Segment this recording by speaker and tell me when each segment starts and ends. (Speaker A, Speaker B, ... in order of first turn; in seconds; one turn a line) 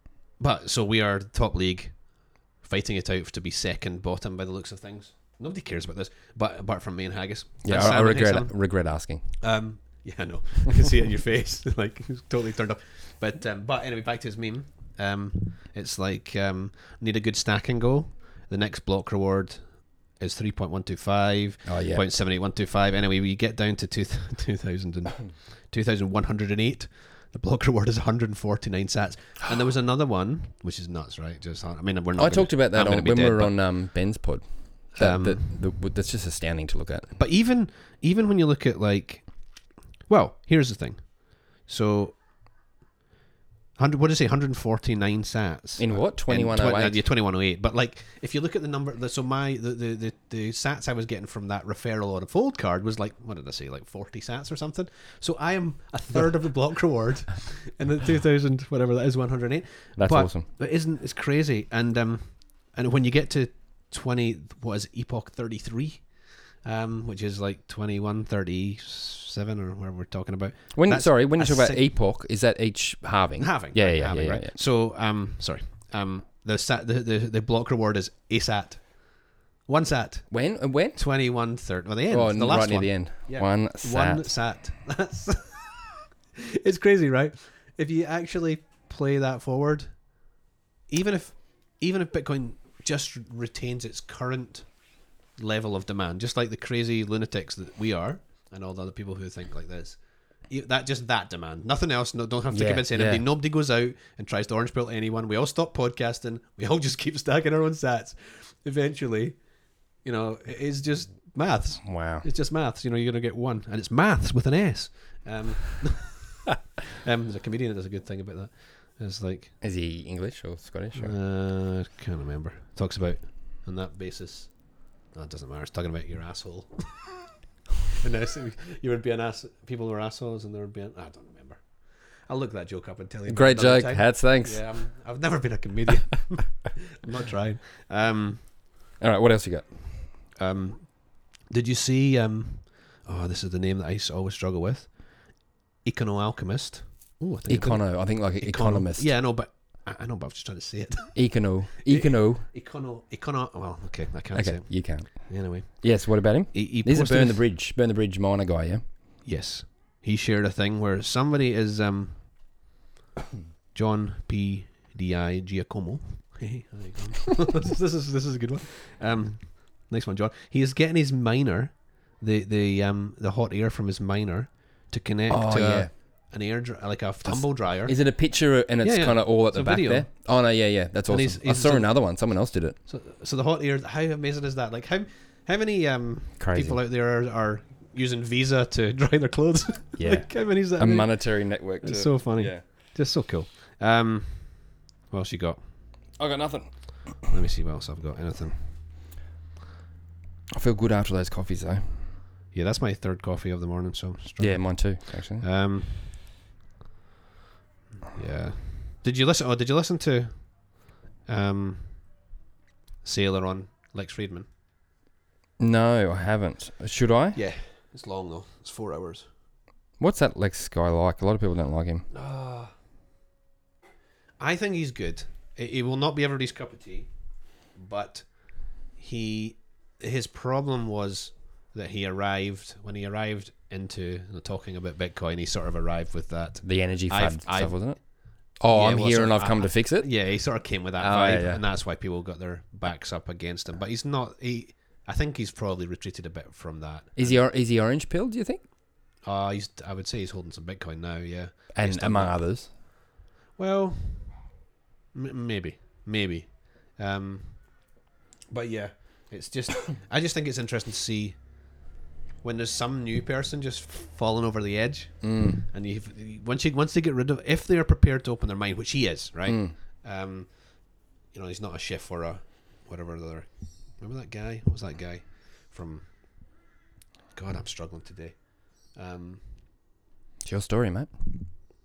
Speaker A: 0.4-8.7
Speaker B: 7.6-9.2
Speaker A: 9.4-33.6
Speaker B: 21.6-22.1
Speaker B: 32.2-37.1
Speaker A: 34.9-35.5
Speaker A: 37.1-42.2
Speaker A: 43.8-71.9
Speaker B: 45.8-47.0
Speaker B: 60.0-60.5
Speaker B: 70.7-74.6
Speaker A: 73.4-86.0
Speaker B: 80.3-81.0
Speaker B: 82.1-84.4
Speaker A: 86.6-90.2
Speaker A: 90.9-109.4
Speaker B: 102.5-103.3
Speaker A: 110.0-119.5
Speaker B: 111.8-112.3
Speaker B: 119.6-121.2
Speaker A: 120.9-127.3
Speaker A: 128.0-138.4
Speaker B: 133.3-134.8
Speaker B: 139.0-139.9
Speaker A: 140.3-157.4
Speaker B: 147.5-149.1
Speaker B: 151.1-152.5
Speaker B: 154.3-158.8
Speaker A: 159.2-162.6
Speaker A: 163.7-178.2
Speaker B: 175.3-175.9
Speaker B: 177.2-182.8
Speaker A: 178.8-180.2
Speaker A: 181.1-182.2
Speaker A: 182.8-195.7
Speaker B: 186.4-186.8
Speaker B: 190.0-192.7
Speaker B: 196.2-197.2
Speaker A: 197.2-198.8
Speaker B: 200.5-202.1
Speaker A: 202.5-206.1
Speaker B: 204.4-205.4
Speaker A: 208.1-212.2
Speaker A: 213.0-214.5
Speaker B: 215.6-217.4
Speaker A: 217.3-219.3
Speaker B: 220.0-222.1
Speaker A: 222.1-222.7
Speaker A: 224.4-227.1
Speaker A: 227.7-247.4
Speaker B: 236.6-240.3
Speaker B: 241.0-241.6
Speaker B: 247.2-248.7
Speaker A: 249.2-252.4
Speaker B: 251.7-252.7
Speaker A: 253.6-254.5
Speaker A: 255.1-257.9
Speaker A: 258.5-261.4
Speaker A: 262.4-276.5
Speaker B: 265.2-265.6
Speaker B: 269.5-269.8
Speaker A: 277.3-279.4
Speaker B: 280.4-281.4